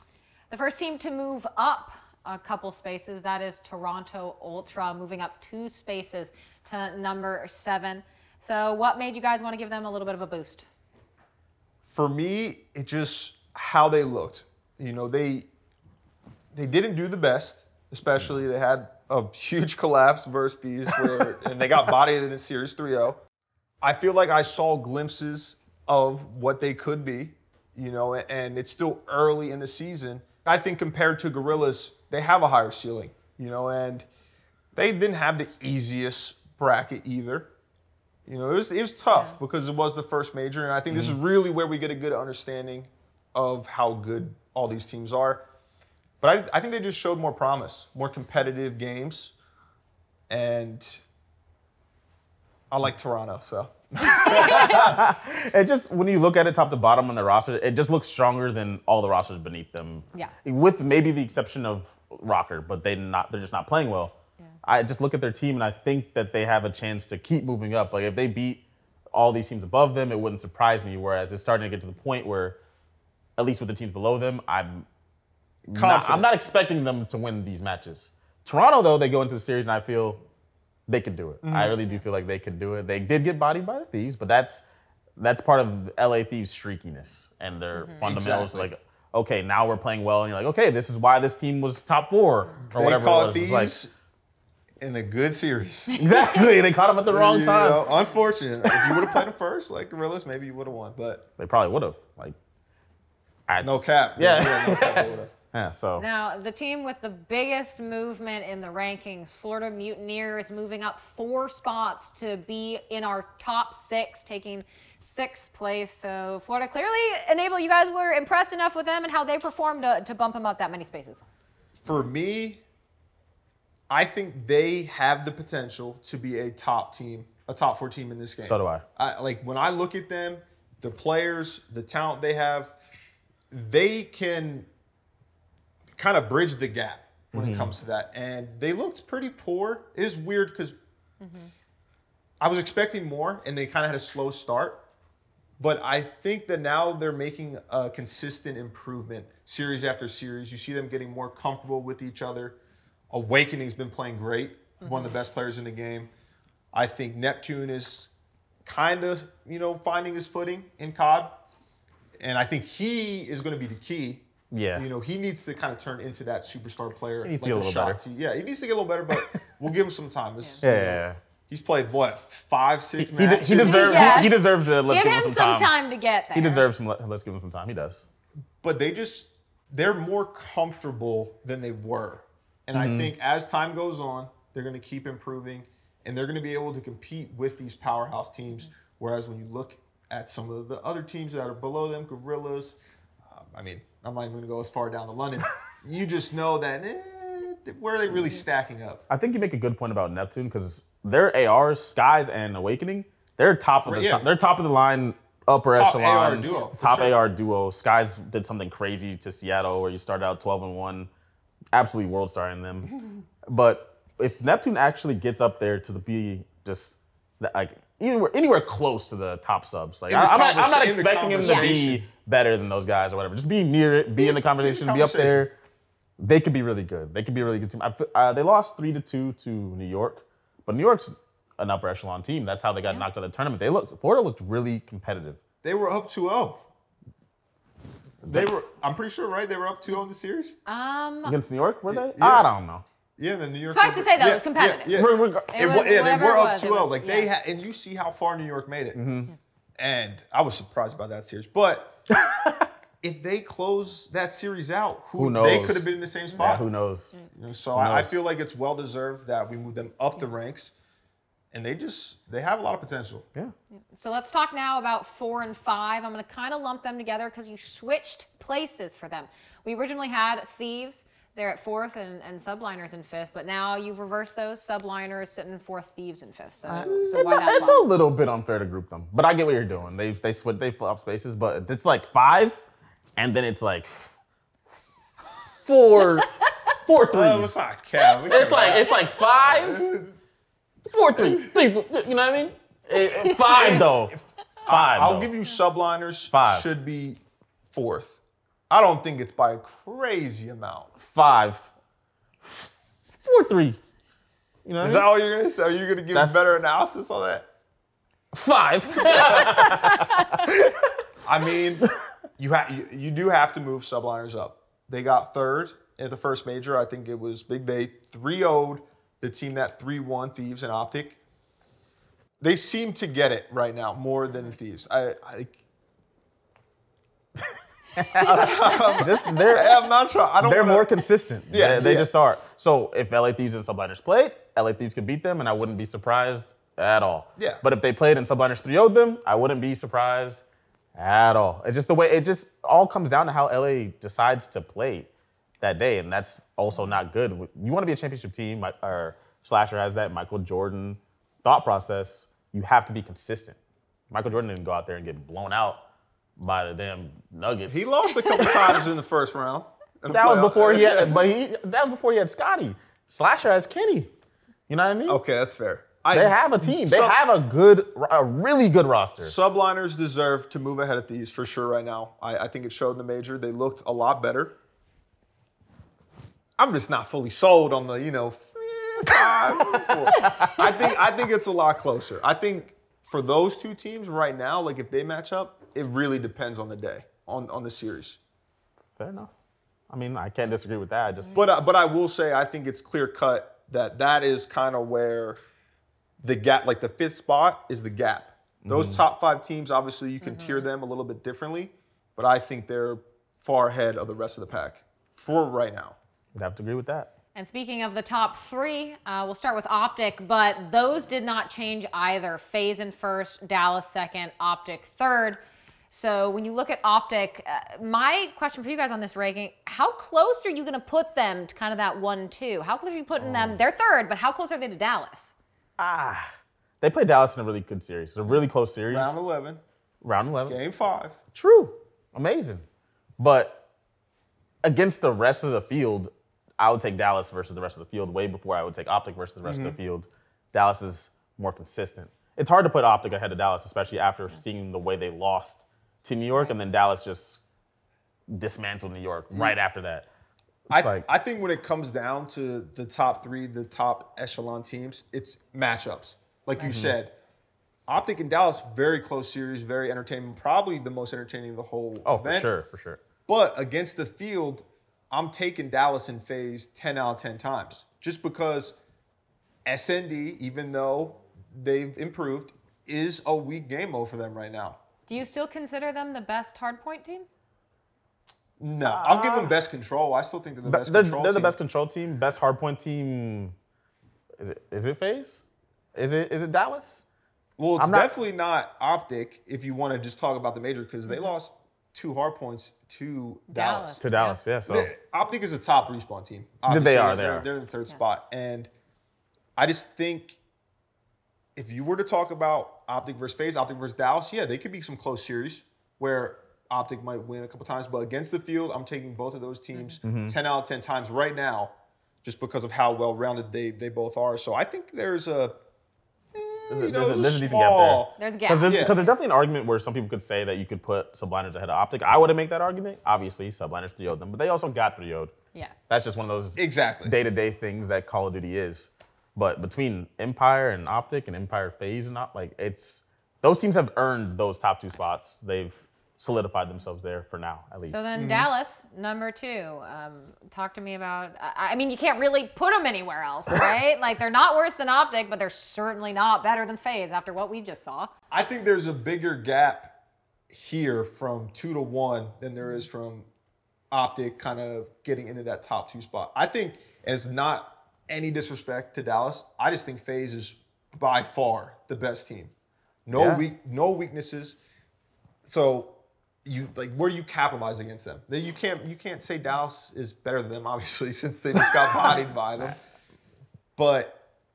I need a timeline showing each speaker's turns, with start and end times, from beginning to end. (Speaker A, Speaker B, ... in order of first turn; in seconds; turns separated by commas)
Speaker A: 0.5-10.7, Speaker B: 11.8-15.5, Speaker B: 16.5-23.2, Speaker B: 23.8-34.1, Speaker B: 34.8-37.5, Speaker B: 38.2-45.5, Speaker A: 39.1-39.4, Speaker C: 40.9-41.1, Speaker B: 46.2-49.3, Speaker B: 50.3-51.0, Speaker B: 52.7-55.1, Speaker C: 54.2-72.6, Speaker A: 54.3-54.8, Speaker C: 73.4-74.9, Speaker B: 75.7-76.3, Speaker C: 75.7-80.2, Speaker C: 80.9-84.6, Speaker B: 81.4-81.8, Speaker C: 85.2-93.7, Speaker A: 87.8-88.0, Speaker B: 88.0-88.7, Speaker B: 92.7-93.9, Speaker B: 94.8-96.3, Speaker C: 95.9-97.9, Speaker A: 96.1-96.4, Speaker B: 97.1-101.3, Speaker C: 101.4-102.4, Speaker C: 103.5-106.0, Speaker B: 103.6-105.3, Speaker A: 106.0-121.2, Speaker B: 121.8-122.6, Speaker B: 123.9-132.8, Speaker C: 128.4-128.8, Speaker B: 133.5-134.7, Speaker B: 135.9-140.8, Speaker C: 137.3-137.7, Speaker A: 141.2-141.5, Speaker B: 142.4-144.8, Speaker B: 145.6-152.6, Speaker B: 153.1-156.1, Speaker A: 154.8-155.1, Speaker B: 156.7-158.1, Speaker B: 158.6-161.4, Speaker B: 162.2-174.3, Speaker C: 164.5-164.9, Speaker C: 167.2-168.0, Speaker C: 170.6-171.2, Speaker C: 173.0-175.7, Speaker A: 173.4-176.7, Speaker C: 176.3-178.0, Speaker B: 178.6-192.8, Speaker C: 182.7-183.1, Speaker B: 193.3-199.0, Speaker C: 199.1-211.1, Speaker B: 203.8-204.3, Speaker B: 205.7-207.2, Speaker C: 211.7-212.9, Speaker C: 213.5-225.5, Speaker B: 220.1-222.0, Speaker A: 221.4-221.7, Speaker B: 224.2-225.4, Speaker C: 226.2-235.4, Speaker B: 235.6-236.6, Speaker B: 238.2-240.6, Speaker A: 240.7-241.4, Speaker C: 241.2-242.8, Speaker B: 241.9-242.5, Speaker B: 243.2-249.0, Speaker A: 243.7-247.3, Speaker C: 244.9-245.5, Speaker C: 248.9-249.3, Speaker B: 249.8-252.0, Speaker C: 252.1-252.7, Speaker B: 253.0-256.7, Speaker C: 255.2-257.1, Speaker B: 257.3-260.7, Speaker C: 257.8-258.2, Speaker B: 261.5-263.3, Speaker A: 263.9-277.8, Speaker C: 276.7-282.6, Speaker B: 276.8-277.6, Speaker C: 283.2-284.1, Speaker C: 285.2-286.3, Speaker C: 286.9-287.5, Speaker B: 287.1-290.1, Speaker C: 288.3-289.9, Speaker C: 290.9-294.1, Speaker B: 291.1-291.5, Speaker B: 293.4-300.9, Speaker C: 294.6-295.3, Speaker C: 296.3-296.6, Speaker C: 301.0-301.7, Speaker C: 302.4-303.8, Speaker C: 304.6-305.1, Speaker B: 304.8-307.4, Speaker C: 306.1-306.4, Speaker C: 308.3-310.8, Speaker B: 309.1-309.4, Speaker B: 311.2-321.2, Speaker B: 322.4-325.6, Speaker C: 327.4-329.9, Speaker B: 328.2-330.9, Speaker A: 328.4-328.8, Speaker C: 330.4-340.4, Speaker B: 331.5-332.1, Speaker B: 337.4-337.6, Speaker C: 340.9-345.1, Speaker C: 345.6-353.6, Speaker C: 354.1-355.8, Speaker C: 356.4-358.8, Speaker B: 357.7-361.2, Speaker C: 360.1-364.1, Speaker C: 364.7-365.2, Speaker B: 365.1-367.2, Speaker C: 366.1-369.4, Speaker B: 369.2-374.5, Speaker B: 376.6-388.2, Speaker A: 380.2-380.6, Speaker C: 380.2-380.6, Speaker C: 389.0-389.3, Speaker C: 389.9-391.4, Speaker B: 391.3-395.4, Speaker B: 396.2-406.0, Speaker C: 398.6-399.0, Speaker A: 400.2-400.6, Speaker C: 406.4-407.1, Speaker A: 407.4-415.4, Speaker A: 415.9-425.3, Speaker C: 423.2-423.6, Speaker C: 425.8-429.1, Speaker B: 428.9-429.6, Speaker C: 430.0-430.6, Speaker B: 430.4-431.2, Speaker C: 431.3-432.6, Speaker C: 433.2-433.6, Speaker C: 434.6-447.4, Speaker B: 439.4-439.8, Speaker C: 448.3-450.1, Speaker C: 450.7-451.1, Speaker B: 450.7-457.1, Speaker C: 456.6-456.9, Speaker B: 457.9-462.5, Speaker C: 462.0-463.0, Speaker B: 463.3-468.8, Speaker B: 469.6-474.8, Speaker A: 475.1-477.3, Speaker B: 478.6-481.6, Speaker C: 478.9-479.5, Speaker C: 480.6-483.5, Speaker C: 484.4-487.0, Speaker B: 487.6-494.0, Speaker C: 487.8-488.1, Speaker A: 493.5-494.4, Speaker C: 494.0-494.9, Speaker B: 494.7-498.7, Speaker C: 496.7-497.4, Speaker B: 499.6-500.4, Speaker B: 501.6-515.5, Speaker C: 510.0-510.4, Speaker B: 516.3-518.1, Speaker C: 516.7-525.3, Speaker A: 518.2-519.0, Speaker B: 518.6-519.0, Speaker C: 525.9-538.0, Speaker B: 526.6-527.1, Speaker A: 537.9-548.1, Speaker B: 538.1-538.5, Speaker B: 548.3-550.0, Speaker B: 550.5-553.3, Speaker B: 553.9-562.5, Speaker B: 563.1-564.6, Speaker C: 563.1-563.4, Speaker B: 565.4-572.8, Speaker B: 573.8-574.2